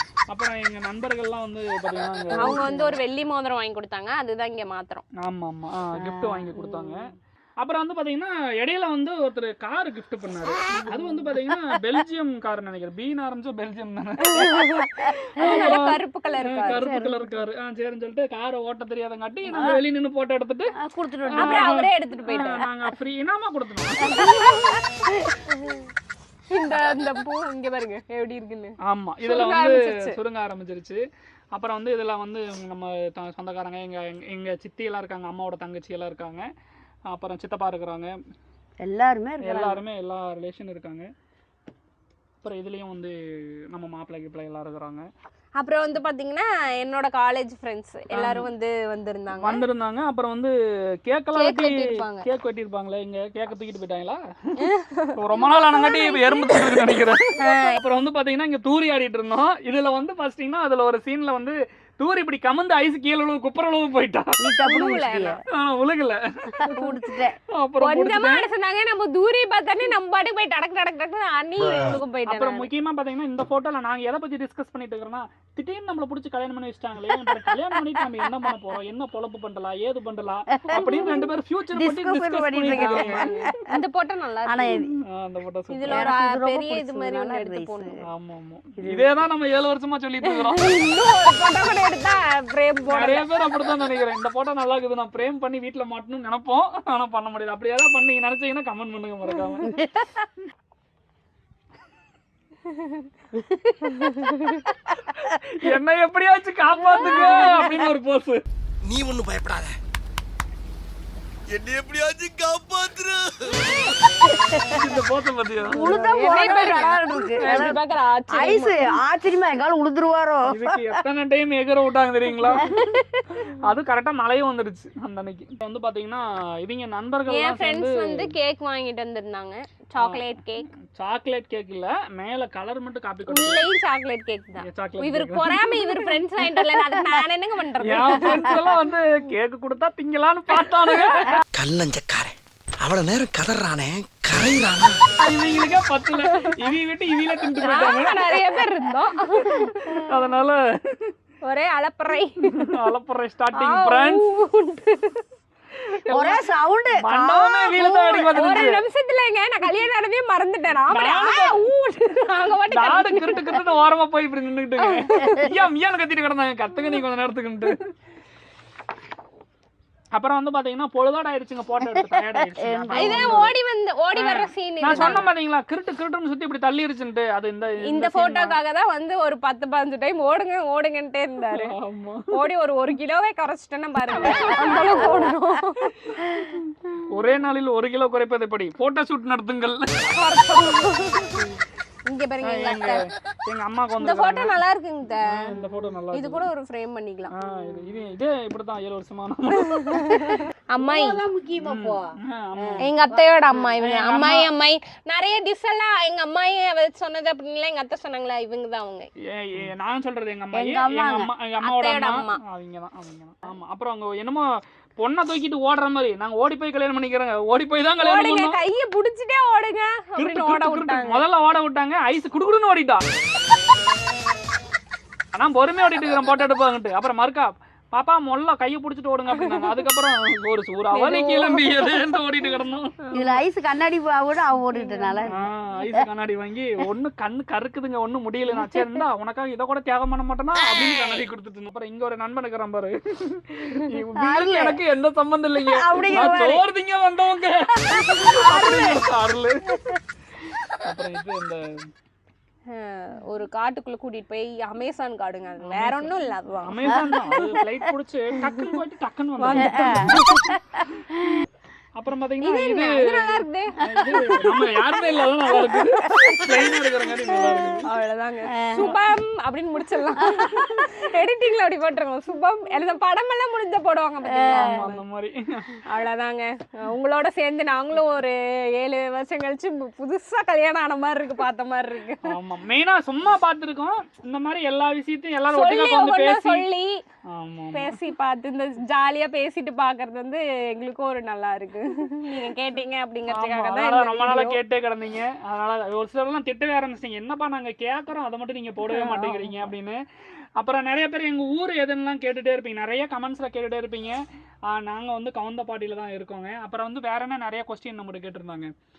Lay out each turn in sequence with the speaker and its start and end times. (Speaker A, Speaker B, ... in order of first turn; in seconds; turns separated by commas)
Speaker A: 0.3-2.6, Speaker B: 2.3-3.0, Speaker C: 2.4-5.0, Speaker A: 5.2-7.0, Speaker B: 6.0-7.0, Speaker A: 7.6-20.7, Speaker B: 10.8-11.6, Speaker C: 14.4-16.8, Speaker B: 14.6-15.1, Speaker B: 16.7-17.2, Speaker B: 19.5-19.8, Speaker B: 20.8-21.8, Speaker A: 21.4-24.8, Speaker C: 21.4-22.6, Speaker C: 24.1-24.5, Speaker B: 24.1-25.5, Speaker C: 26.5-30.2, Speaker A: 28.8-31.0, Speaker A: 31.5-36.5, Speaker A: 37.1-38.1, Speaker B: 38.8-39.8, Speaker A: 39.4-41.1, Speaker A: 42.4-43.1, Speaker A: 43.7-45.1, Speaker C: 45.6-49.6, Speaker A: 48.1-48.5, Speaker A: 49.4-54.6, Speaker C: 51.3-52.2, Speaker C: 54.6-56.4, Speaker A: 55.1-64.4, Speaker C: 57.4-57.8, Speaker B: 64.4-65.4, Speaker C: 64.6-65.4, Speaker A: 65.5-66.7, Speaker B: 66.6-67.4, Speaker A: 67.6-68.4, Speaker C: 67.8-72.7, Speaker A: 72.3-83.3, Speaker B: 80.5-81.1, Speaker B: 81.7-83.5, Speaker C: 82.7-84.8, Speaker B: 84.5-84.9, Speaker A: 85.1-86.1, Speaker C: 85.7-88.0, Speaker B: 85.9-88.0, Speaker A: 88.1-90.8, Speaker B: 88.8-89.1, Speaker C: 90.3-93.2, Speaker A: 92.9-99.7, Speaker B: 99.6-100.2, Speaker B: 103.3-104.6, Speaker A: 105.2-108.4, Speaker C: 107.0-107.6, Speaker B: 107.0-107.9, Speaker D: 108.8-109.8, Speaker D: 111.5-114.3, Speaker B: 114.2-114.8, Speaker A: 114.7-115.9, Speaker B: 115.7-117.8, Speaker C: 115.8-118.8, Speaker A: 117.4-117.7, Speaker B: 118.3-120.8, Speaker A: 120.5-122.7, Speaker B: 122.6-123.0, Speaker A: 123.5-128.3, Speaker C: 127.3-130.7, Speaker A: 130.9-133.6, Speaker C: 133.3-138.5, Speaker A: 134.6-137.0, Speaker A: 137.8-141.4, Speaker D: 141.5-145.0, Speaker A: 145.2-148.7, Speaker C: 147.6-150.1, Speaker A: 149.3-151.1, Speaker C: 151.4-152.7, Speaker A: 152.6-154.2, Speaker C: 153.5-155.2, Speaker A: 156.0-156.4, Speaker B: 156.1-158.3, Speaker A: 156.9-158.8, Speaker C: 158.2-163.6, Speaker A: 160.9-161.7, Speaker A: 162.7-167.8, Speaker C: 164.8-165.5, Speaker A: 170.1-173.5, Speaker B: 172.4-173.5, Speaker C: 172.9-175.2, Speaker A: 174.1-178.6, Speaker B: 174.9-175.2, Speaker C: 177.8-181.7, Speaker A: 181.5-182.3, Speaker C: 182.3-185.9, Speaker A: 184.2-185.1, Speaker A: 186.4-190.2, Speaker C: 190.1-191.5, Speaker C: 192.1-193.1, Speaker A: 192.4-194.5, Speaker C: 194.0-195.5, Speaker A: 195.3-196.5, Speaker C: 196.1-197.3, Speaker A: 197.3-200.3, Speaker C: 199.6-201.2, Speaker B: 200.8-203.2, Speaker A: 201.6-202.8, Speaker C: 202.8-209.1, Speaker A: 203.8-204.5, Speaker A: 209.3-214.5, Speaker B: 210.5-211.3, Speaker C: 211.6-212.4, Speaker A: 215.0-218.6, Speaker C: 218.0-221.2, Speaker A: 220.2-223.0, Speaker A: 225.3-233.0, Speaker C: 229.4-229.7, Speaker C: 230.9-231.8, Speaker C: 233.1-233.4, Speaker B: 233.1-236.1, Speaker C: 234.7-235.3, Speaker A: 235.3-250.0, Speaker C: 240.6-241.2, Speaker B: 244.2-244.8, Speaker B: 245.6-246.6, Speaker B: 247.9-248.8, Speaker C: 248.2-249.0, Speaker A: 250.8-251.7, Speaker C: 252.7-257.1, Speaker A: 255.6-260.4, Speaker B: 256.9-257.4, Speaker C: 259.4-260.4, Speaker B: 259.5-261.4, Speaker A: 261.9-267.9, Speaker C: 262.4-264.5, Speaker B: 264.0-264.6, Speaker B: 265.7-266.7, Speaker B: 267.3-267.8, Speaker C: 267.9-275.0, Speaker B: 268.5-268.9, Speaker B: 270.2-270.7, Speaker B: 274.3-274.8, Speaker A: 274.5-275.7, Speaker C: 275.9-282.3, Speaker A: 282.3-286.6, Speaker C: 285.5-287.0, Speaker A: 287.3-288.0, Speaker C: 287.7-294.6, Speaker A: 293.3-300.0, Speaker C: 298.9-299.4, Speaker A: 300.6-308.7